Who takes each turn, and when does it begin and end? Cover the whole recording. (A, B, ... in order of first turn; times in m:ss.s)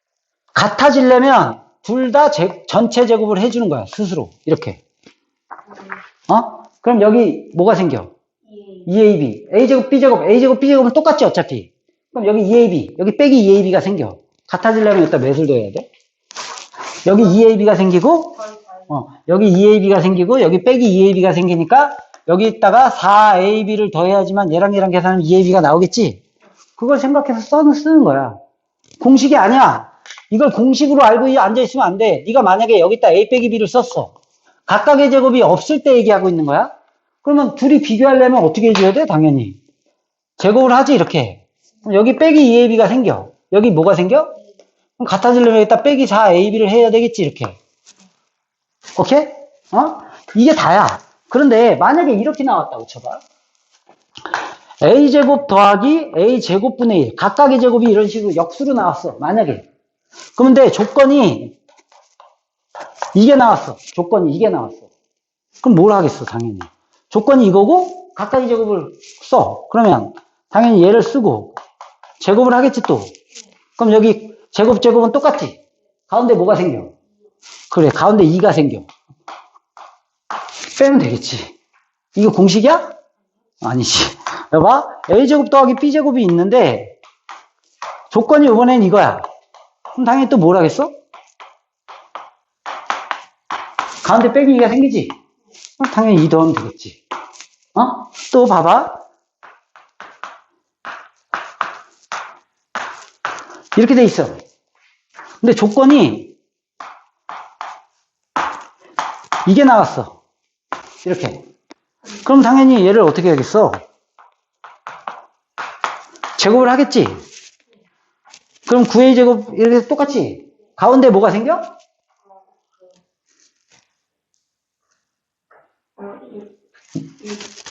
0:00.5-0:04.8 A
0:06.3-0:08.1 A
0:08.8-0:15.9 A
0:17.0-0:26.2 A
0:26.8-0:28.4 A
0:29.0-0:34.1 A
0:34.7-0:36.7 A
0:37.2-0:39.6 A
0:40.4-0:44.3 A
0:45.0-0:47.6 A
0:49.0-0:53.2 A
0:54.8-0:59.6 A
1:00.4-1:01.6 A
1:03.1-1:04.9 A
1:05.6-1:11.6 A
1:12.2-1:13.1 A
1:13.8-1:16.9 A
1:17.7-1:18.8 A
1:20.7-1:21.5 A
1:22.1-1:22.9 A
1:23.6-1:27.0 A
1:28.1-1:29.2 A
1:29.9-1:30.9 A
1:34.0-1:35.1 A
1:35.8-1:37.0 A
1:37.7-1:39.0 A
1:43.7-1:44.4 A
1:45.4-1:46.3 A
1:49.4-1:50.2 A
1:51.0-1:51.4 A
1:52.2-1:53.8 A
1:56.4-1:57.2 A
1:58.7-2:01.7 A